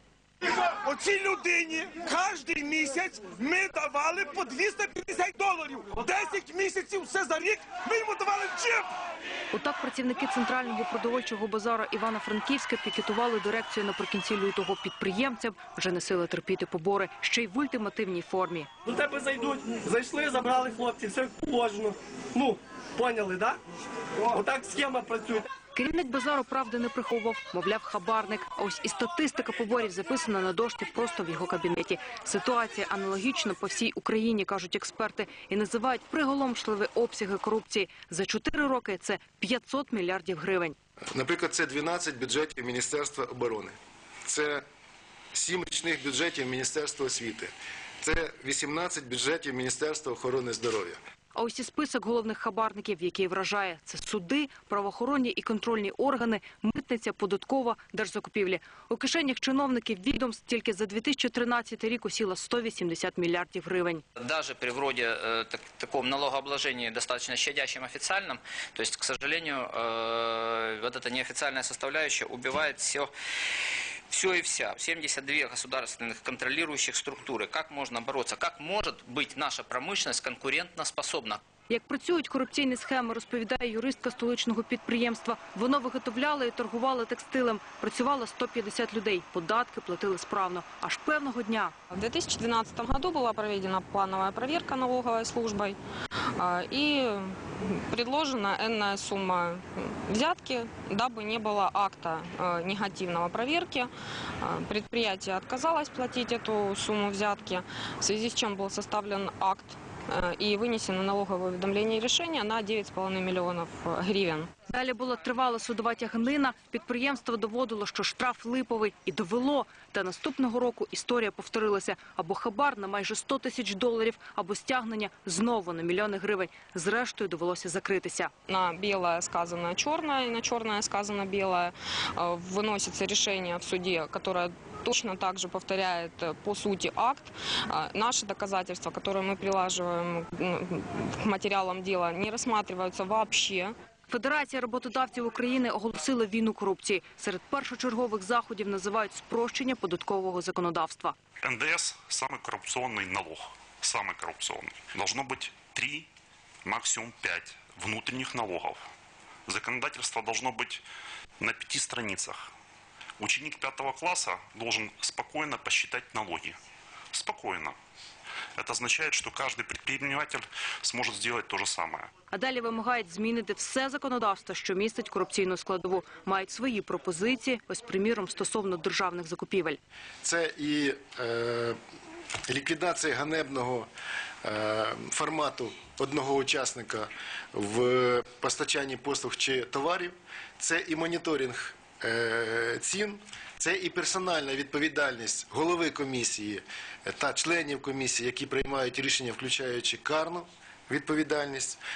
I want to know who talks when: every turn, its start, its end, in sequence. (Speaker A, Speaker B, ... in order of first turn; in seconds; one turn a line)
Speaker A: 0.9-8.8
Speaker B: 9.5-18.7
Speaker C: 18.8-23.6
Speaker C: 24.2-25.5
Speaker B: 25.7-40.7
Speaker D: 41.1-43.8
Speaker D: 44.3-44.6
Speaker D: 45.3-51.0
Speaker B: 51.3-64.0
Speaker E: 64.2-73.1
Speaker E: 74.1-81.4
Speaker B: 81.7-91.7
Speaker F: 91.9-95.8
Speaker F: 96.4-103.9
Speaker F: 104.4-114.5
Speaker B: 114.7-128.3
Speaker F: 128.5-143.7
Speaker B: 144.1-151.2
Speaker G: 151.4-156.1
Speaker G: 156.7-158.8
Speaker G: 159.5-160.8
Speaker G: 161.4-162.5
Speaker G: 163.2-166.6
Speaker G: 167.1-167.8
Speaker G: 168.6-172.1
Speaker B: 172.3-179.8
Speaker D: 180.2-181.8
Speaker D: 182.5-183.9
Speaker D: 184.4-201.8